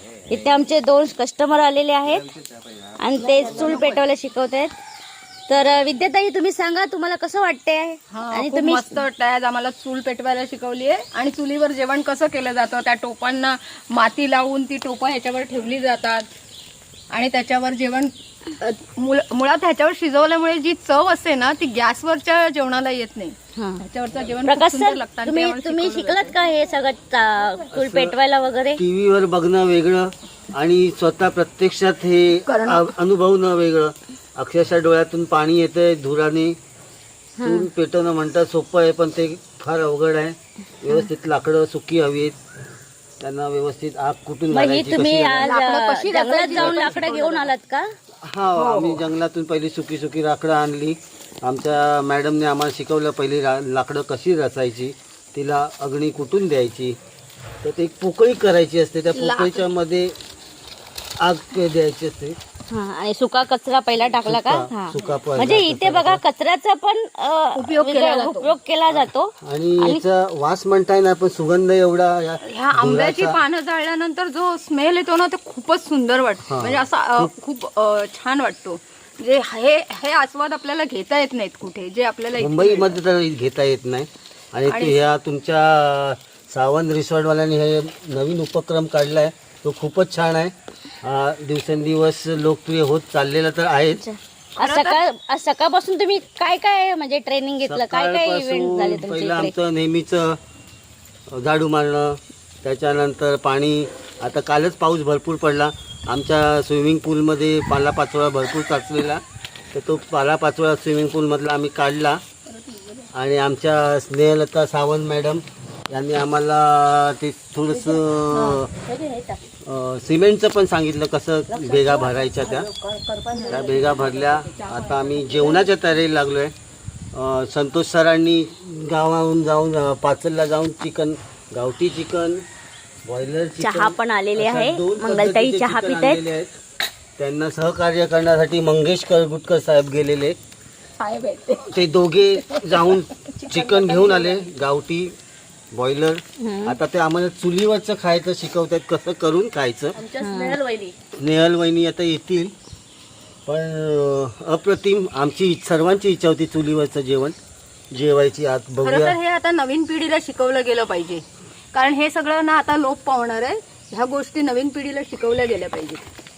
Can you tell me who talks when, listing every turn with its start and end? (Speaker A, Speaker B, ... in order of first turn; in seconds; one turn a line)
Speaker A: 0.3-2.3
Speaker A: 3.0-4.7
Speaker B: 3.2-4.0
Speaker A: 5.5-9.0
Speaker B: 8.1-16.3
Speaker B: 17.1-26.4
Speaker A: 23.6-23.8
Speaker A: 24.4-28.8
Speaker C: 27.7-28.2
Speaker C: 28.8-36.6
Speaker B: 32.5-32.9
Speaker A: 37.4-37.7
Speaker C: 37.4-42.4
Speaker C: 43.2-45.5
Speaker A: 44.5-47.9
Speaker B: 45.4-47.5
Speaker C: 46.6-47.0
Speaker C: 48.2-57.0
Speaker B: 48.6-49.1
Speaker C: 57.6-60.1
Speaker B: 59.1-59.7
Speaker C: 61.2-62.4
Speaker A: 62.7-70.0
Speaker C: 64.2-66.2
Speaker B: 67.5-68.5
Speaker C: 68.9-73.4
Speaker B: 72.5-83.0
Speaker C: 76.5-77.3
Speaker C: 82.4-94.0
Speaker B: 84.7-85.1
Speaker A: 93.9-99.5
Speaker B: 94.6-95.0
Speaker C: 97.7-100.4
Speaker C: 101.3-112.2
Speaker B: 112.5-113.1
Speaker C: 113.1-118.7
Speaker B: 117.7-119.4
Speaker C: 119.7-122.7
Speaker B: 121.5-125.7
Speaker C: 123.5-126.5
Speaker C: 127.1-132.4
Speaker C: 133.0-136.5
Speaker A: 133.6-136.2
Speaker C: 137.2-140.4
Speaker B: 141.0-144.4
Speaker C: 141.7-145.1
Speaker C: 145.7-150.0
Speaker A: 146.4-146.8
Speaker B: 149.9-150.9
Speaker A: 150.2-150.6
Speaker C: 151.2-152.5
Speaker C: 153.5-157.4
Speaker C: 157.9-159.2
Speaker B: 158.8-166.0